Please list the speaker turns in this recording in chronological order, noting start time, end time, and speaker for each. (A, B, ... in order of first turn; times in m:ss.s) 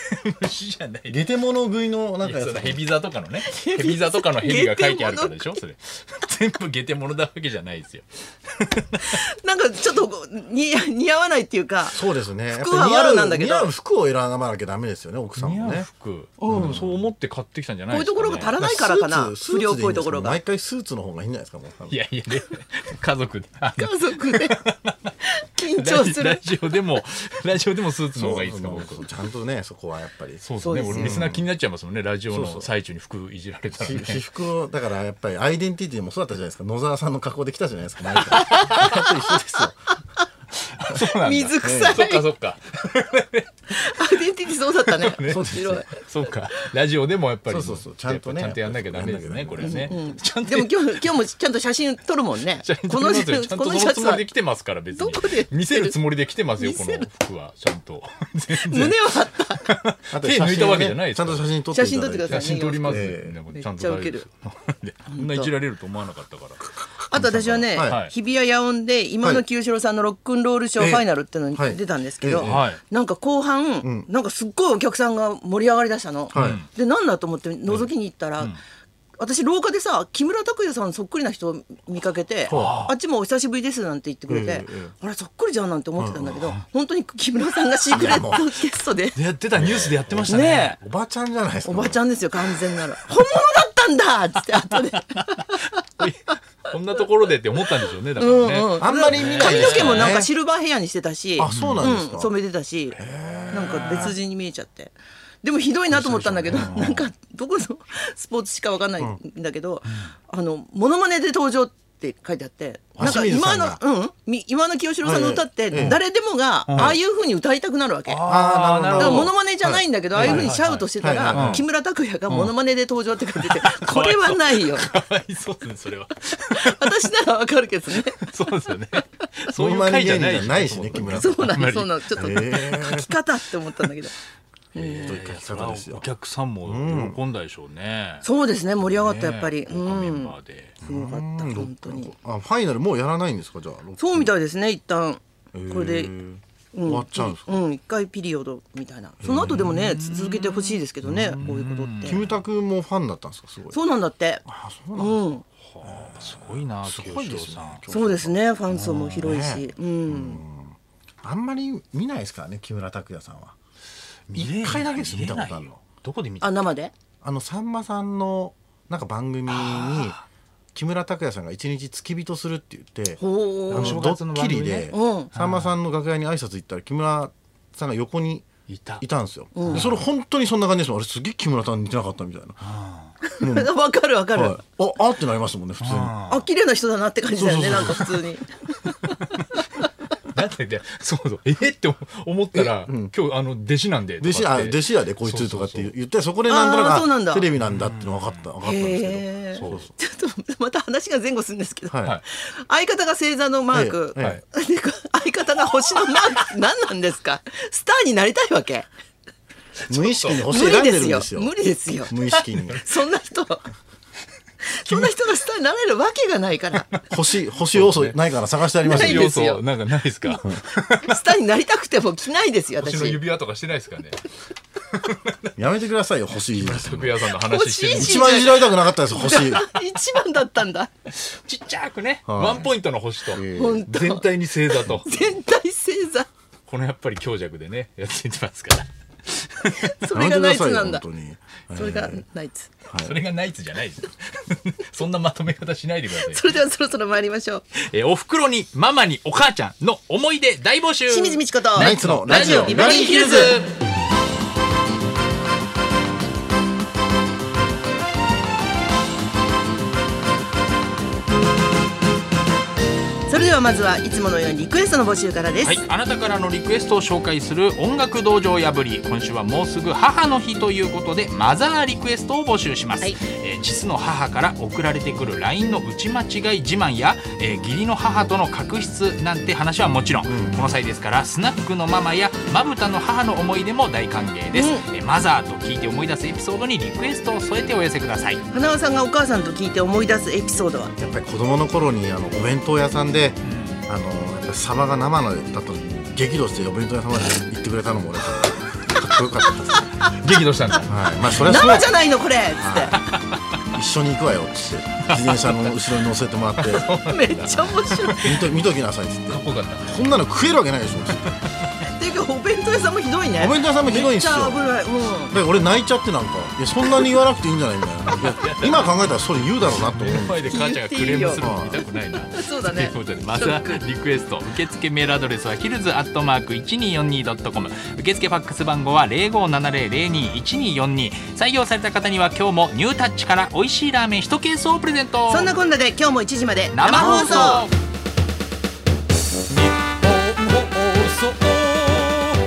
0:00.1-0:01.2 A
0:01.1-0:02.8 B
0:02.2-0:09.2 A
0:03.4-0:05.6 C
0:09.0-0:13.7 C
0:11.9-0:15.9 B
0:15.4-0:18.6 A
0:16.4-0:16.8 C
0:16.5-0:17.0 B
0:17.9-0:20.4 C
0:18.6-0:22.0 B
0:21.9-0:29.1 A
0:23.8-0:24.6 C
0:25.2-0:26.5 C
0:28.1-0:31.4 B
0:30.4-0:34.2 A
0:30.6-0:31.2 C
0:32.3-0:32.7 B
0:33.8-0:39.8 B
0:38.3-0:39.0 A
0:38.4-0:39.7 C
0:40.6-0:51.1 A
0:41.2-0:42.3 C
0:41.6-0:42.0 B
0:43.7-0:46.7 C
0:47.5-0:50.0 B
0:49.6-0:54.3 C
0:52.5-1:01.5 A
0:54.9-0:56.0 C
0:56.6-0:57.1 C
0:58.5-0:59.7 C
1:00.1-1:03.4 B
1:01.7-1:04.3 C
1:02.3-1:06.6 A
1:05.1-1:05.5 C
1:07.1-1:18.6 C
1:07.1-1:08.0 B
1:07.8-1:08.1 A
1:10.8-1:12.6 B
1:12.4-1:12.8 A
1:13.8-1:14.1 B
1:16.3-1:16.6 B
1:16.3-1:16.7 A
1:19.2-1:29.2 C
1:22.5-1:22.8 B
1:22.5-1:22.9 A
1:24.3-1:24.9 B
1:26.0-1:26.4 B
1:27.9-1:28.5 B
1:29.1-1:30.8 A
1:29.5-1:32.0 B
1:30.3-1:30.8 C
1:31.6-1:35.7 C
1:34.7-1:40.2 A
1:38.2-1:43.0 C
1:38.8-1:40.3 B
1:41.4-1:42.3 B
1:41.5-1:41.9 A
1:43.0-1:44.0 B
1:43.5-1:58.2 C
1:43.7-1:44.1 A
1:45.9-1:47.0 A
1:46.5-1:46.9 B
1:53.0-1:53.8 B
1:55.0-1:56.0 B
1:56.7-1:57.0 A
1:58.1-1:59.3 A
1:58.2-2:01.6 B
1:59.0-2:04.9 C
2:00.2-2:01.6 A
2:02.3-2:02.5 A
2:03.2-2:07.1 A
2:06.5-2:08.2 C
2:08.1-2:12.4 A
2:09.5-2:11.5 B
2:11.1-2:14.1 C
2:12.2-2:13.1 B
2:14.7-2:15.2 C
2:14.7-2:18.3 A
2:15.0-2:16.1 B
2:16.6-2:17.2 B
2:18.2-2:22.1 C
2:18.8-2:20.8 A
2:20.8-2:24.3 B
2:24.0-2:26.1 C
2:25.5-2:27.6 B
2:26.7-2:32.2 C
2:29.2-2:29.8 B
2:29.4-2:32.4 A
2:31.0-2:31.4 B
2:32.0-2:33.8 B
2:33.7-2:34.4 C
2:34.4-2:35.3 B
2:34.9-2:35.4 C
2:35.6-2:37.8 A
2:35.8-2:38.4 B
2:37.9-2:40.4 C
2:38.7-2:39.4 A
2:39.2-2:43.5 B
2:44.3-2:46.6 A
2:44.3-2:45.7 B
2:46.4-2:46.9 C
2:47.2-2:50.2 B
2:49.5-2:50.2 A
2:50.7-2:58.5 B
2:53.2-2:54.1 C
2:53.7-2:55.7 A
2:54.9-2:55.3 C
2:58.7-2:59.0 A
2:59.0-3:02.6 B
2:59.5-2:59.9 C
2:59.6-3:00.0 A
3:02.6-3:03.2 A
3:03.2-3:04.6 C
3:03.4-3:03.7 B
3:04.3-3:06.1 B
3:05.8-3:06.5 A
3:06.3-3:09.8 C
3:07.4-3:08.1 B
3:07.7-3:08.1 A
3:09.2-3:09.5 A
3:10.3-3:15.9 A
3:12.5-3:13.1 B
3:14.2-3:19.9 B
3:16.5-3:17.5 C
3:17.6-3:18.5 A
3:18.6-3:28.9 C
3:19.5-3:19.9 A
3:21.9-3:22.2 B
3:23.7-3:24.4 B
3:24.2-3:24.4 A
3:29.9-3:30.5 A
3:29.9-3:31.5 B
3:30.4-3:32.1 C
3:32.0-3:32.8 B
3:32.3-3:32.8 A
3:32.8-3:33.7 C
3:34.6-3:36.9 C
3:37.1-3:39.3 B
3:37.7-3:38.2 A
3:38.8-3:39.6 C
3:38.8-3:41.4 A
3:41.0-3:43.2 C
3:42.8-3:44.2 A
3:44.9-3:45.5 A
3:45.6-3:47.2 B
3:46.4-3:48.5 A
3:47.4-3:50.9 C
3:48.0-3:49.7 B
3:51.1-3:55.1 A
3:52.2-3:52.7 B
3:53.3-3:53.8 B
3:53.5-3:56.3 C
3:56.7-3:59.9 A
3:59.8-4:01.0 C
4:00.1-4:02.2 B
4:01.7-4:02.7 C
4:02.9-4:03.2 B
4:02.9-4:06.4 A
4:06.2-4:07.6 C
4:07.8-4:13.7 A
4:11.1-4:13.6 C
4:11.8-4:13.4 B
4:23.3-4:25.8 C
4:25.6-4:48.4 A
4:40.2-4:40.7 B
4:44.5-4:44.8 C
4:48.5-4:50.9 C
4:51.0-4:59.8 B
4:53.4-4:53.8 A
4:59.0-5:00.2 C
5:00.0-5:00.9 A
5:00.8-5:01.9 B
5:01.3-5:03.0 C
5:02.6-5:03.0 B
5:02.9-5:03.4 A
5:03.7-5:06.9 B
5:05.0-5:08.5 A
5:06.9-5:08.2 C
5:08.1-5:11.2 B
5:09.3-5:10.1 A
5:11.1-5:11.8 A
5:11.9-5:15.4 C
5:13.4-5:14.6 B
5:15.3-5:20.5 B
5:16.9-5:17.1 C
5:18.1-5:19.0 A
5:19.7-5:35.5 A
5:20.5-5:23.8 C
5:21.4-5:21.8 B
5:35.3-5:37.7 C
5:36.7-5:37.7 A
5:40.4-5:42.0 A